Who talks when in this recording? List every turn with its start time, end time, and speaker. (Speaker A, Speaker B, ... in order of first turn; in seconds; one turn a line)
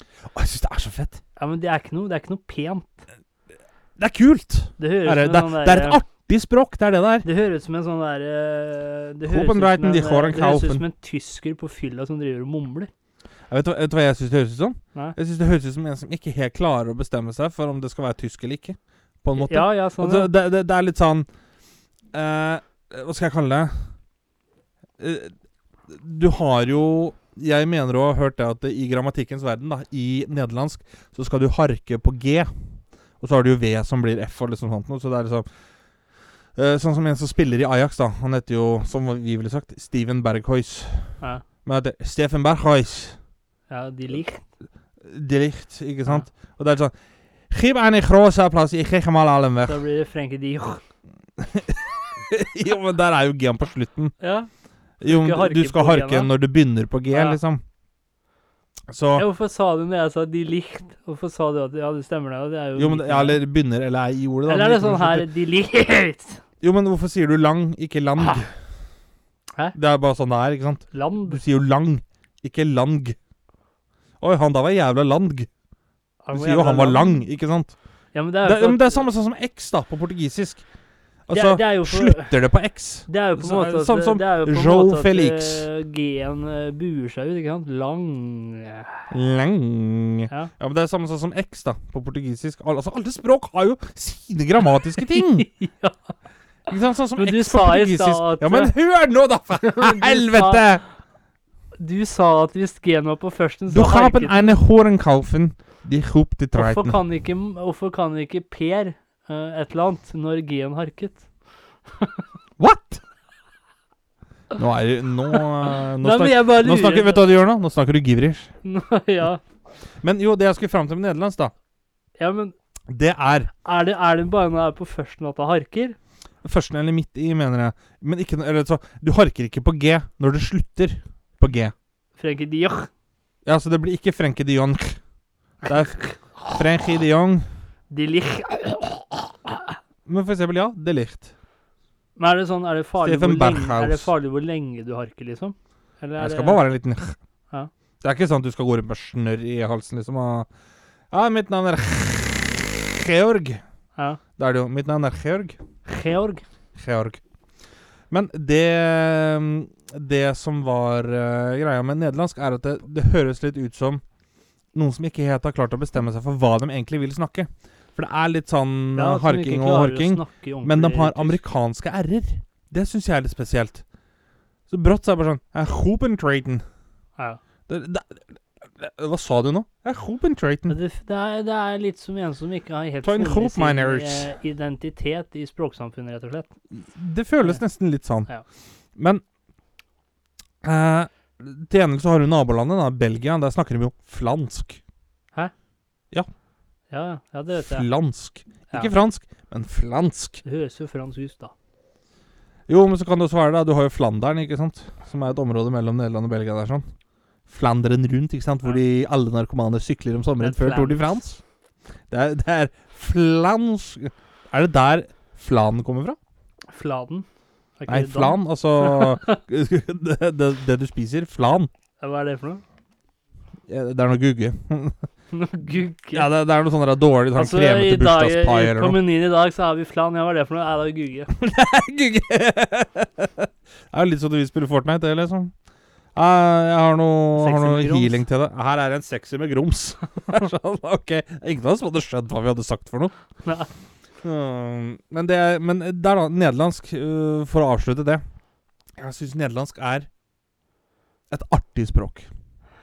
Speaker A: 0.3-1.2
Speaker B: 1.4-3.0
Speaker A: 4.0-7.3
Speaker B: 4.8-6.0
Speaker B: 7.2-12.9
Speaker A: 9.3-10.8
Speaker A: 13.5-21.3
Speaker B: 19.4-20.3
Speaker A: 22.1-23.8
Speaker A: 25.0-25.3
Speaker A: 25.9-32.5
Speaker A: 33.2-35.5
Speaker A: 36.5-41.1
Speaker A: 41.6-43.2
Speaker B: 43.7-44.4
Speaker A: 45.0-46.9
Speaker A: 47.5-49.8
Speaker B: 49.6-50.8
Speaker A: 51.4-54.1
Speaker B: 54.2-54.5
Speaker B: 55.0-56.3
Speaker A: 55.0-57.6
Speaker B: 57.1-57.4
Speaker A: 58.9-59.2
Speaker B: 59.2-63.4
Speaker A: 62.8-65.3
Speaker B: 64.5-66.4
Speaker A: 66.6-68.5
Speaker A: 69.7-73.2
Speaker B: 70.9-71.4
Speaker A: 74.2-75.5
Speaker B: 76.2-77.1
Speaker A: 76.3-77.7
Speaker B: 78.1-79.1
Speaker A: 78.4-80.6
Speaker A: 81.3-85.7
Speaker B: 81.3-82.4
Speaker B: 83.1-89.1
Speaker A: 89.1-95.5
Speaker B: 95.0-96.1
Speaker A: 96.7-100.8
Speaker B: 97.2-98.7
Speaker B: 99.8-100.7
Speaker B: 101.8-104.6
Speaker A: 103.7-107.0
Speaker B: 106.5-111.3
Speaker B: 111.9-112.2
Speaker A: 112.6-113.0
Speaker A: 114.5-118.5
Speaker B: 115.3-117.3
Speaker B: 118.6-119.4
Speaker A: 120.0-121.5
Speaker B: 122.2-122.5
Speaker A: 122.9-123.5
Speaker B: 123.6-126.0
Speaker A: 126.4-131.7
Speaker B: 132.2-132.9
Speaker A: 133.5-135.0
Speaker A: 135.7-136.0
Speaker B: 135.7-136.5
Speaker A: 136.5-137.5
Speaker B: 137.9-139.8
Speaker A: 140.1-141.3
Speaker B: 142.2-146.6
Speaker A: 143.0-144.1
Speaker A: 146.2-147.2
Speaker A: 148.0-150.5
Speaker A: 151.1-153.6
Speaker B: 154.0-154.2
Speaker A: 154.4-155.6
Speaker B: 155.9-156.4
Speaker A: 156.8-157.2
Speaker A: 158.1-164.0
Speaker A: 164.7-173.8
Speaker B: 169.0-171.4
Speaker A: 174.7-176.6
Speaker A: 177.7-180.8
Speaker B: 180.7-186.5
Speaker A: 183.0-184.3
Speaker A: 186.7-188.3
Speaker A: 189.0-189.2
Speaker A: 190.6-194.8
Speaker B: 196.9-197.9
Speaker A: 197.6-200.4
Speaker B: 200.4-201.5
Speaker A: 202.7-206.9
Speaker A: 207.5-211.4
Speaker B: 210.4-211.1
Speaker A: 212.1-216.2
Speaker B: 216.7-217.3
Speaker B: 217.8-219.3
Speaker A: 217.9-221.7
Speaker B: 222.0-222.6
Speaker A: 223.7-225.0
Speaker B: 225.3-226.3
Speaker A: 226.1-229.0
Speaker B: 227.3-231.3
Speaker A: 231.3-235.5
Speaker A: 236.2-243.1
Speaker B: 237.4-238.2
Speaker B: 243.4-243.7
Speaker A: 244.2-248.2
Speaker A: 249.0-250.1
Speaker A: 251.3-252.3